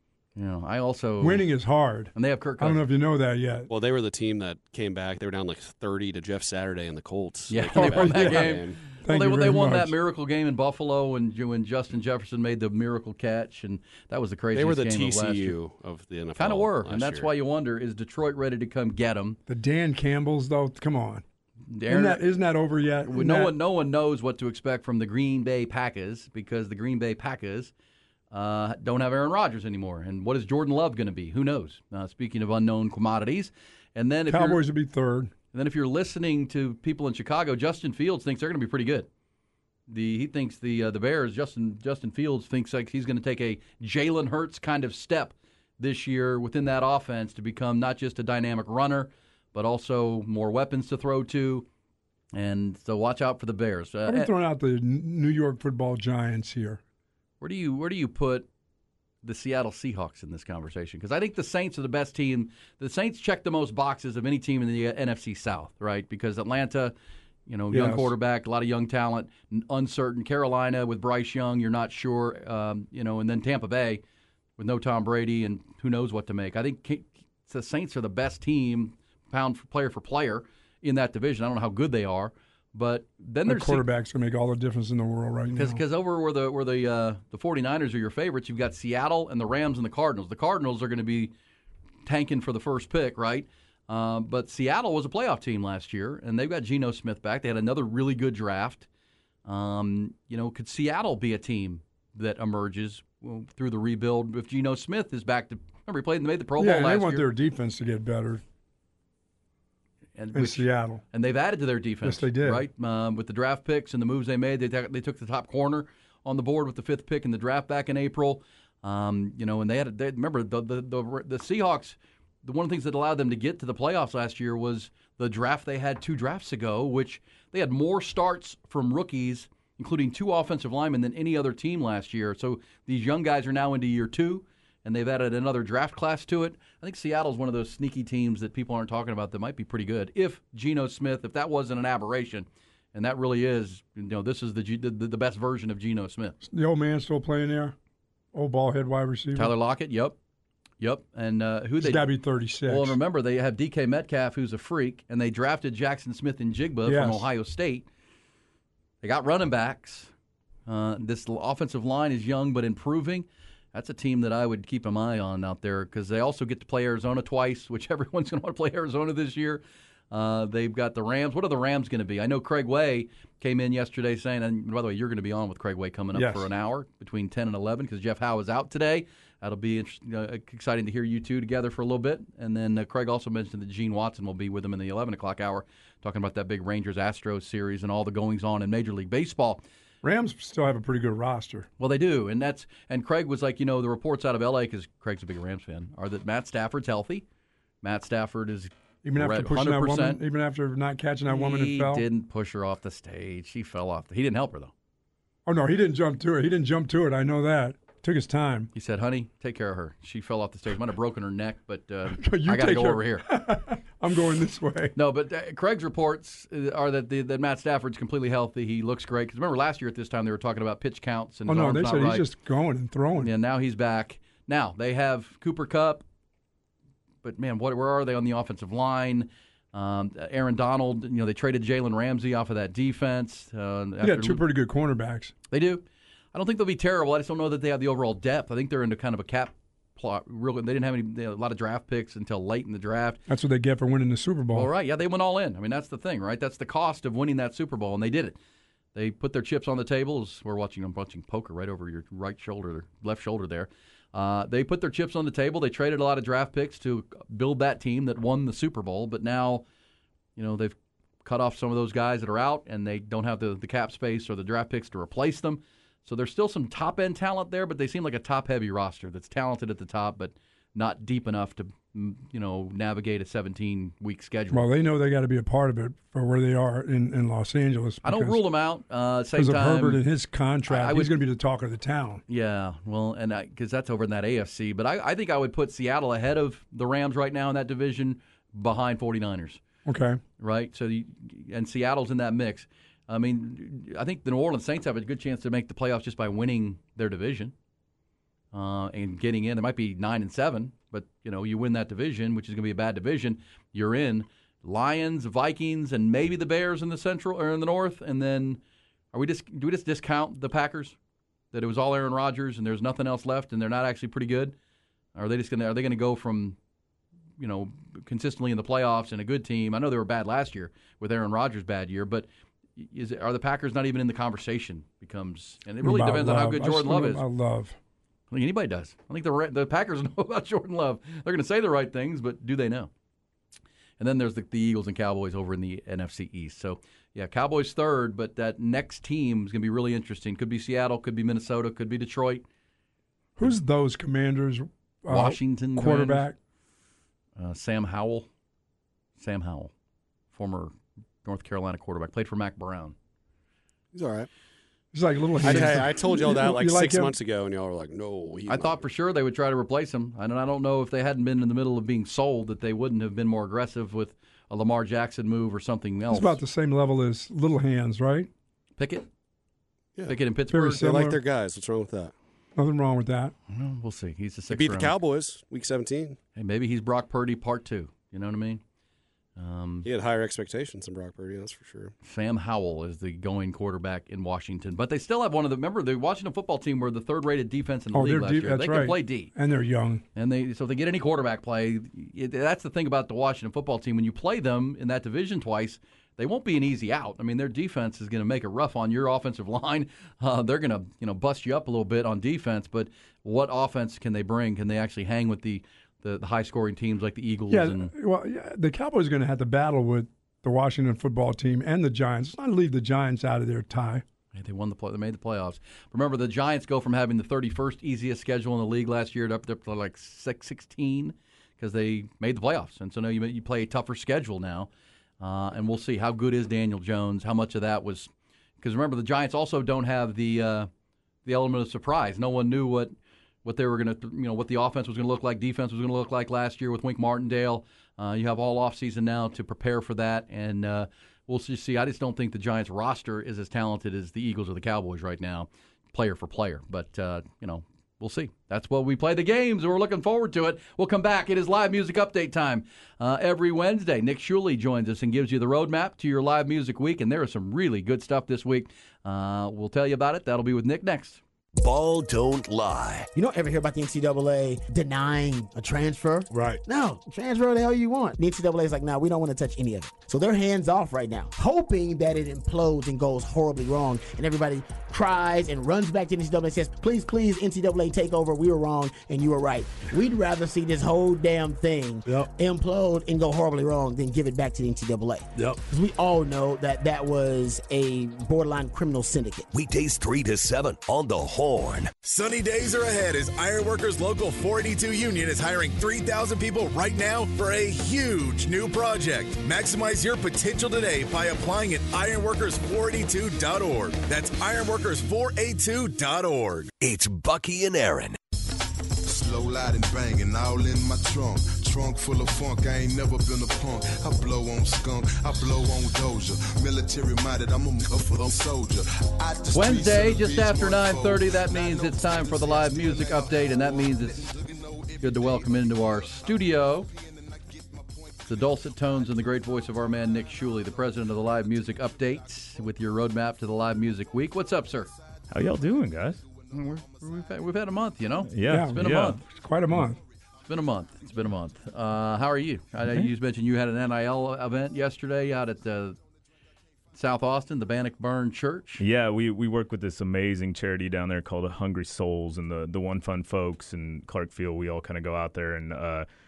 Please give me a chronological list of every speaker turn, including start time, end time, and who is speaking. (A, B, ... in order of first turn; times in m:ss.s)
0:00.4-0:01.5 A
0:01.2-0:03.7 B
0:02.1-0:02.9 A
0:03.7-0:08.8 C
0:07.5-0:15.6 A
0:07.7-0:10.0 B
0:14.5-0:17.3 C
0:16.4-0:19.4 A
0:19.5-0:21.2 B
0:21.7-0:22.3 A
0:21.9-0:23.6 B
0:23.0-0:27.7 A
0:28.3-0:34.6 A
0:34.3-0:35.3 B
0:35.5-0:39.1 A
0:39.9-0:51.7 A
0:52.3-0:54.3 A
0:54.1-0:56.8 B
0:57.4-0:58.5 A
0:59.2-1:07.0 A
1:07.5-1:14.0 A
1:07.7-1:08.1 B
1:14.6-1:23.9 A
1:23.5-1:25.8 B
1:25.6-1:31.3 A
1:32.1-1:38.9 A
1:39.5-1:47.3 A
1:46.6-1:48.4 B
1:50.2-2:26.4 A
1:50.3-1:51.0 B
1:52.0-1:52.7 B
2:26.4-2:27.8 B
2:28.3-2:29.5 B
2:29.4-2:30.2 A
2:30.8-2:37.9 A
2:31.8-2:33.0 B
2:36.8-2:37.3 B
2:39.0-2:40.1 A
2:40.7-3:09.6 A
2:56.1-2:56.5 B
3:10.0-3:11.7 B
3:11.8-3:17.3 A
3:17.8-3:20.2 A
3:19.0-3:22.1 B
3:21.3-3:24.7 A
3:25.5-3:28.7 B
3:28.7-3:33.3 A
3:32.2-3:35.0 B
3:35.0-3:42.3 A
3:41.5-3:43.3 B
3:43.2-3:46.0 A
3:47.2-3:54.5 A
3:54.0-3:55.3 B
3:55.5-4:03.2 A
4:03.3-4:04.7 B
4:04.5-4:08.4 A
4:09.0-4:19.6 A
4:20.4-4:34.7 A
4:34.5-4:38.4 B
4:38.0-4:40.0 A
4:39.3-4:42.2 B
4:40.7-4:41.2 A
4:42.3-4:49.6 A
4:49.8-4:50.2 B
4:50.4-4:57.5 A
4:58.5-5:08.6 A
5:09.1-5:11.0 A
5:11.5-5:14.6 A
5:15.2-5:16.6 A
5:17.4-5:27.2 A
5:25.8-5:27.8 B
5:28.3-5:32.9 A
5:34.0-5:42.4 A
5:43.4-5:46.4 B
5:45.1-5:46.3 A
5:47.4-5:48.3 A
5:49.2-5:49.7 A
5:50.3-5:50.7 A
5:51.2-5:53.0 A
5:53.9-5:54.3 C
5:54.9-5:57.2 B
5:55.4-5:58.8 C
5:55.4-5:55.8 A
5:58.5-6:06.4 A
6:06.1-6:08.3 B
6:08.8-6:09.1 A
6:10.1-6:10.9 A
6:10.5-6:11.2 B
6:10.7-6:12.1 C
6:12.6-6:13.3 B
6:13.5-6:15.0 A
6:14.5-6:16.2 C
6:16.4-6:18.6 A
6:19.4-6:19.9 A
6:19.8-6:21.9 C
6:22.0-6:29.3 A
6:27.9-6:30.0 B
6:30.2-6:47.9 A
6:47.5-6:54.0 B
6:54.3-7:04.7 A
7:05.2-7:08.1 A
7:08.6-7:10.7 A
7:11.2-7:41.2 A
7:41.6-7:43.1 D
7:43.2-8:09.5 E
7:46.3-7:46.6 F
8:09.5-8:11.9 D
8:12.0-8:26.7 F
8:26.8-8:28.2 D
8:29.0-8:58.2 G
8:39.5-8:44.3 A
8:45.0-8:46.9 A
8:48.3-8:54.9 A
8:55.3-8:56.2 H
8:56.5-8:59.2 A
8:58.2-8:59.2 H
8:58.5-9:00.0 B
8:59.8-9:02.2 G
9:00.5-9:06.0 A
9:07.0-9:08.8 A
9:08.8-9:16.1 H